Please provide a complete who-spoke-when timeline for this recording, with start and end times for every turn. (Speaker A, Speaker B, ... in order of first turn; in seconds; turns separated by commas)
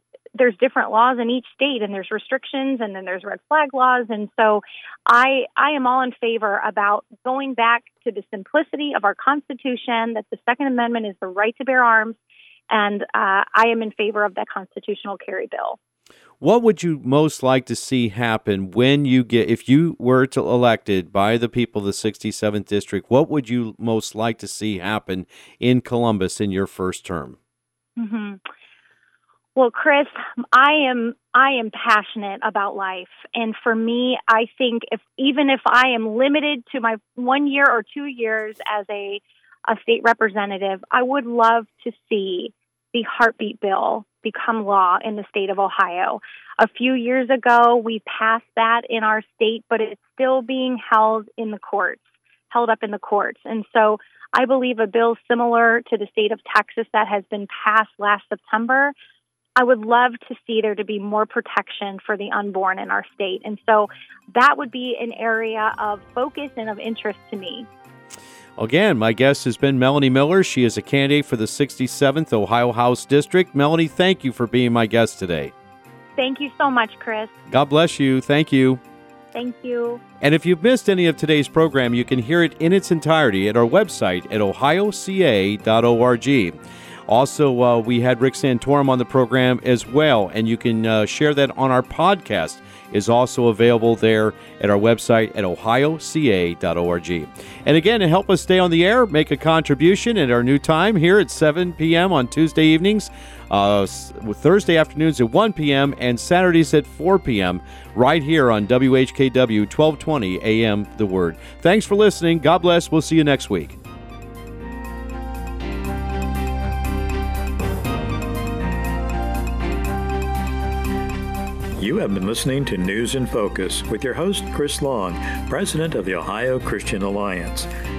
Speaker A: 0.4-12.2, Speaker A: 12.7-15.8, Speaker B: 16.4-27.4, Speaker A: 28.0-28.4, Speaker A: 29.6-58.9, Speaker A: 59.6-67.7, Speaker B: 68.6-75.5, Speaker A: 76.2-77.3, Speaker B: 77.5-78.8, Speaker A: 79.3-80.0, Speaker B: 80.2-86.6, Speaker B: 87.1-113.8, Speaker C: 121.8-127.7